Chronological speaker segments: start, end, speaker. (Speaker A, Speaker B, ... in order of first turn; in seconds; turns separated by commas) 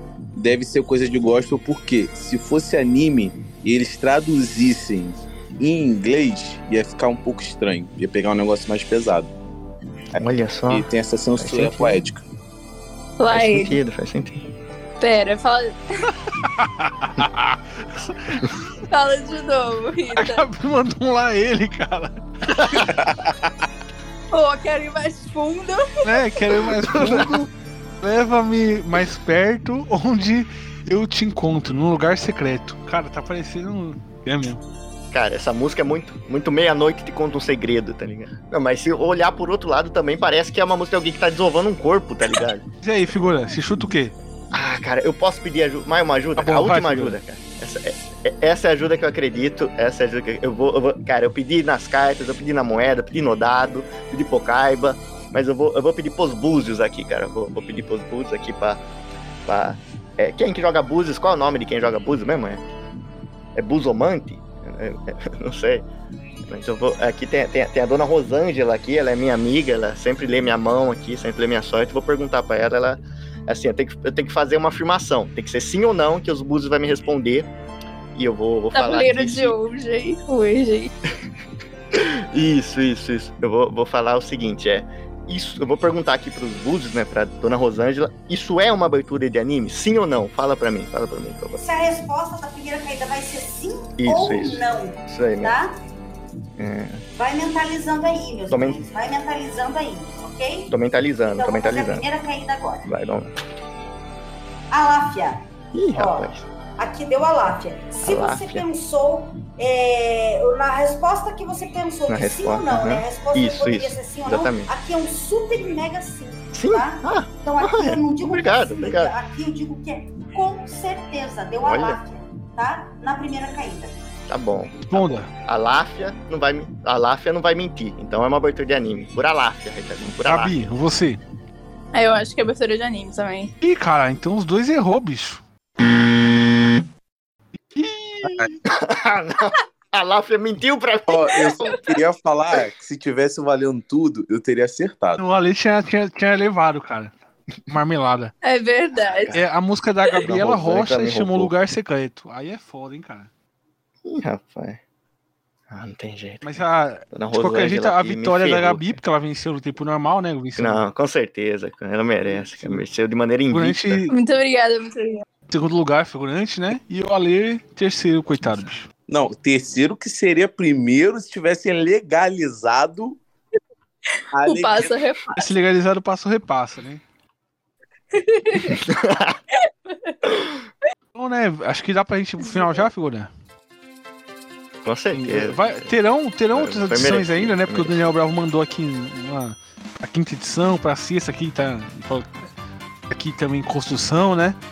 Speaker A: 0.3-9.3, Speaker B: 10.2-12.0, Speaker A: 10.7-12.2, Speaker C: 13.2-13.8, Speaker B: 13.3-14.4, Speaker C: 15.0-15.8, Speaker D: 16.4-18.5, Speaker C: 18.9-20.5, Speaker D: 20.2-22.9, Speaker A: 22.8-23.5, Speaker C: 24.3-26.2, Speaker D: 26.1-27.5, Speaker B: 26.9-27.4, Speaker D: 28.0-34.6, Speaker B: 35.1-42.6, Speaker D: 42.8-44.1, Speaker B: 44.5-58.8, Speaker D: 46.4-47.2, Speaker B: 59.5-62.6, Speaker B: 63.6-65.8, Speaker B: 66.5-77.5, Speaker B: 78.2-79.6, Speaker C: 78.7-80.9, Speaker B: 81.9-91.6, Speaker E: 91.6-95.7, Speaker B: 94.0-95.5, Speaker B: 96.6-97.0, Speaker E: 97.2-100.7, Speaker B: 98.5-98.8, Speaker B: 100.7-102.0, Speaker E: 101.2-102.9, Speaker B: 102.9-103.3, Speaker E: 104.7-105.4, Speaker B: 105.7-106.5, Speaker E: 106.0-124.0, Speaker B: 108.0-108.6, Speaker B: 112.1-114.7, Speaker B: 116.5-119.1, Speaker B: 121.6-122.0, Speaker B: 124.3-130.7, Speaker D: 124.9-125.3, Speaker D: 130.1-131.2, Speaker C: 131.9-133.5, Speaker D: 133.6-135.4, Speaker D: 137.8-138.6, Speaker B: 138.7-141.8, Speaker A: 141.1-145.2, Speaker D: 145.2-147.1, Speaker D: 147.7-148.3, Speaker C: 148.4-149.3, Speaker B: 149.0-149.5, Speaker D: 149.3-153.3, Speaker B: 150.2-151.5, Speaker B: 154.1-154.8, Speaker B: 155.7-159.0, Speaker D: 156.4-160.8, Speaker B: 160.6-164.1, Speaker D: 162.5-162.8, Speaker D: 163.5-164.1, Speaker C: 164.1-165.2, Speaker D: 165.5-168.9, Speaker B: 168.4-168.7, Speaker A: 169.1-173.2, Speaker A: 174.3-174.9, Speaker C: 174.4-175.5, Speaker D: 175.4-177.0, Speaker C: 178.1-178.8, Speaker B: 178.6-179.4, Speaker C: 179.7-180.2, Speaker B: 180.2-180.6, Speaker D: 181.2-183.3, Speaker B: 184.8-185.9, Speaker D: 185.1-192.5, Speaker B: 186.5-188.1, Speaker D: 193.1-194.6